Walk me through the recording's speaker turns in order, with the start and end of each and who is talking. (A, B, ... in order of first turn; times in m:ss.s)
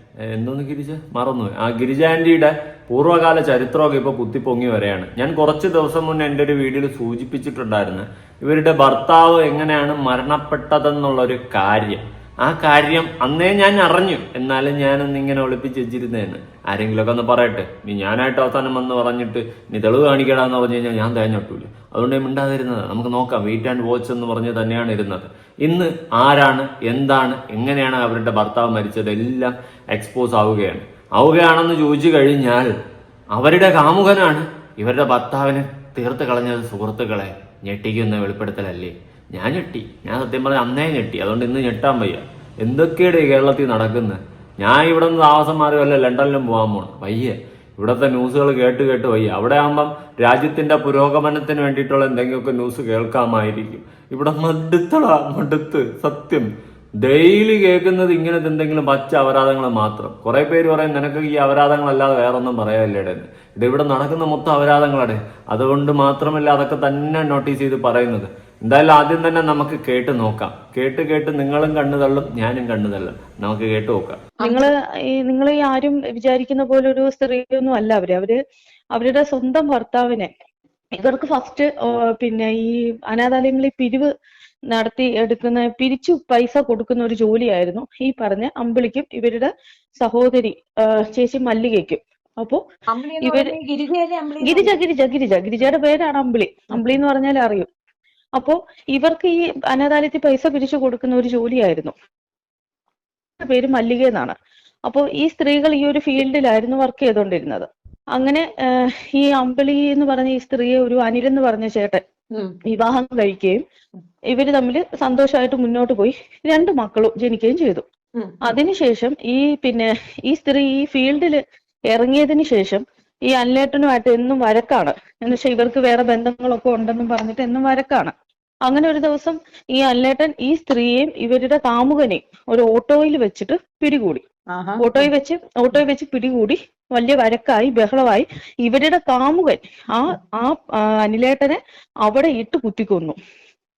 0:00.3-0:32.7 A
0:33.3-0:56.5 A
0:57.0-1:14.2 A
1:14.4-1:14.7 B
1:14.4-1:18.4 C
1:18.9-1:20.3 C
1:21.0-1:24.1 C
1:24.7-1:32.6 C
1:32.9-1:34.8 B
1:33.2-1:33.5 C
1:34.4-1:37.7 C
1:38.4-1:41.9 C
1:43.4-1:44.4 C
1:44.9-1:52.0 C
1:52.7-1:53.6 C
1:54.3-1:57.8 C
1:58.4-2:01.4 C
2:01.9-2:08.1 C
2:08.7-2:14.2 C
2:14.5-2:15.1 B
2:14.8-2:23.2 C